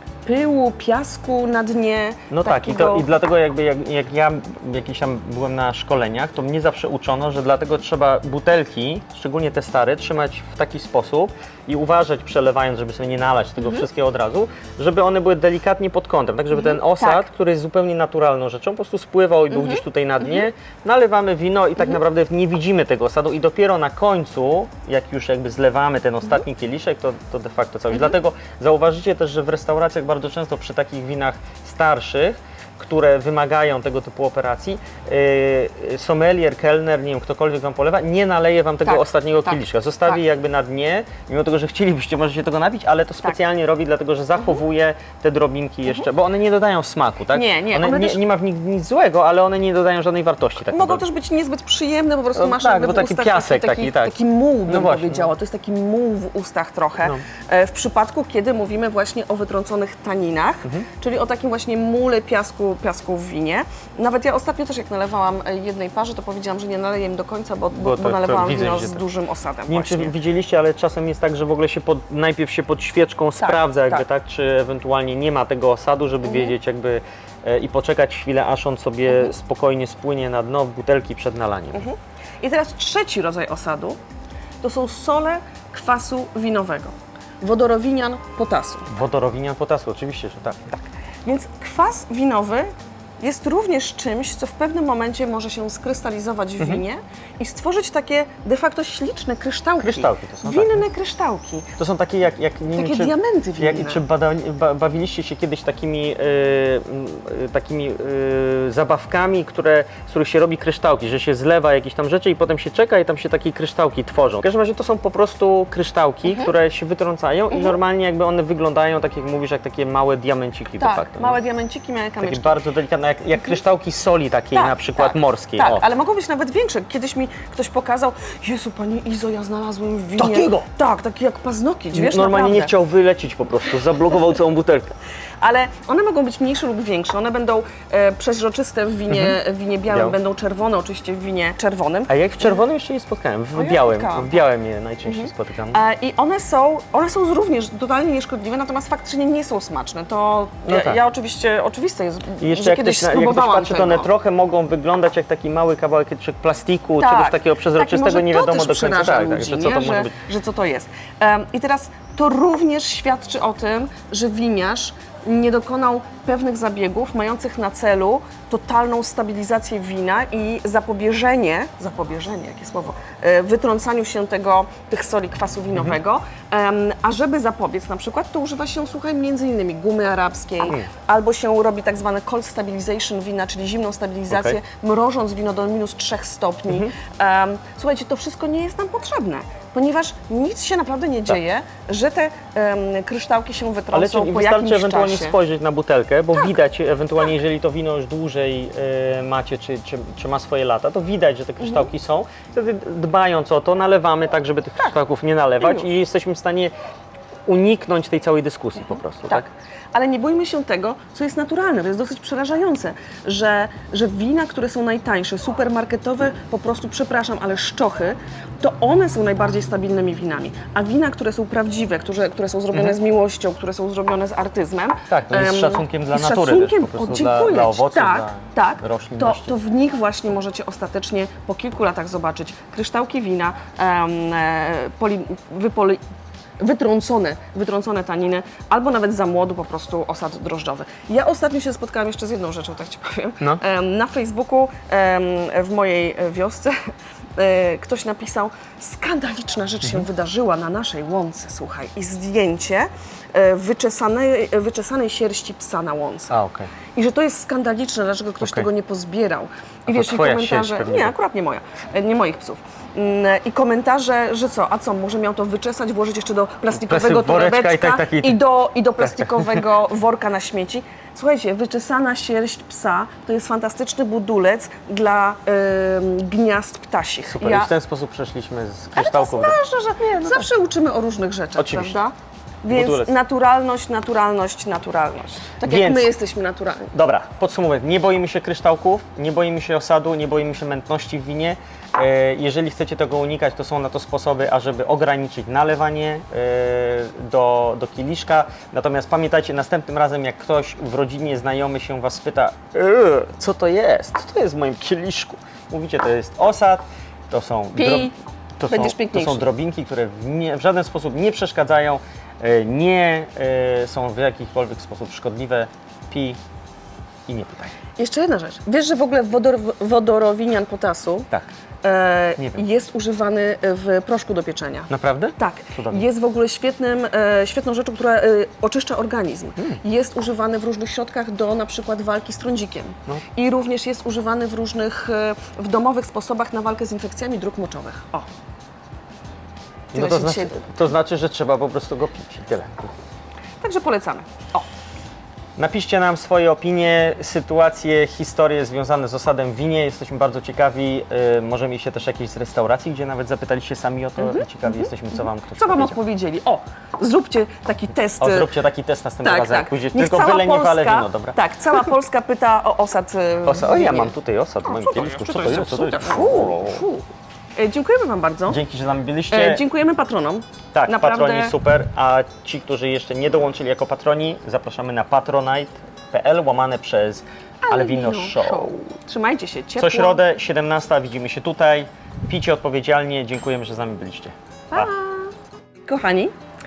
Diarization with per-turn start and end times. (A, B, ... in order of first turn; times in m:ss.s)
0:00.2-0:03.1 A
0:02.3-0:51.0 B
0:13.6-0:13.8 A
0:16.5-0:17.3 A
0:19.5-0:19.8 A
0:38.8-0:40.2 A
0:47.3-0:48.2 A
0:50.7-1:10.1 A
0:52.4-0:55.3 B
1:07.7-1:09.0 B
1:09.7-1:21.9 B
1:13.4-1:14.0 A
1:16.2-1:16.5 A
1:21.7-1:24.0 A
1:24.6-1:28.9 A
1:28.9-1:30.8 B
1:31.2-1:41.7 A
1:39.8-1:40.8 B
1:41.8-2:01.4 B
1:42.7-1:44.0 A
1:56.2-1:56.5 A
1:57.5-1:57.8 A
2:00.8-2:02.6 A
2:02.2-2:05.8 B
2:04.5-2:12.7 A
2:10.2-2:10.6 B
2:11.9-2:14.9 B
2:15.4-2:22.6 A
2:19.9-2:20.2 B
2:22.1-2:25.8 B
2:23.5-2:24.4 A
2:25.0-2:34.1 A
2:30.7-2:31.0 B
2:32.4-2:40.1 B
2:37.0-3:15.4 A
3:04.3-3:04.6 B
3:13.9-3:26.7 B
3:21.6-3:21.9 A
3:25.6-3:25.9 A
3:27.5-3:29.4 B
3:29.3-3:56.0 A
3:45.1-3:49.5 B
3:56.6-4:16.3 A
4:16.3-4:16.7 B
4:16.9-4:37.7 A
4:18.4-4:18.7 B
4:19.9-4:21.1 B
4:26.7-4:28.4 B
4:29.0-4:29.6 B
4:37.3-4:39.6 B
4:38.9-4:46.9 A
4:40.2-4:40.4 B
4:41.6-4:42.0 B
4:42.7-4:43.1 B
4:45.6-4:46.1 B
4:46.9-5:16.4 B
5:07.7-5:08.1 A
5:08.6-5:09.5 A
5:17.3-5:17.7 B
5:18.0-5:21.3 A
5:21.8-5:38.2 A
5:24.9-5:26.0 B
5:39.9-5:40.6 A
5:39.9-5:42.9 B
5:43.6-5:44.7 A
5:45.6-5:56.0 B
5:54.2-5:58.5 A
5:58.2-6:01.4 B
5:59.2-6:07.0 A
6:03.4-6:06.8 B
6:07.6-6:08.6 A
6:08.5-6:09.6 B
6:09.3-6:11.5 A
6:10.7-6:18.7 B
6:17.6-6:20.2 A
6:19.8-6:24.9 B
6:24.7-6:25.3 A
6:25.8-6:26.3 A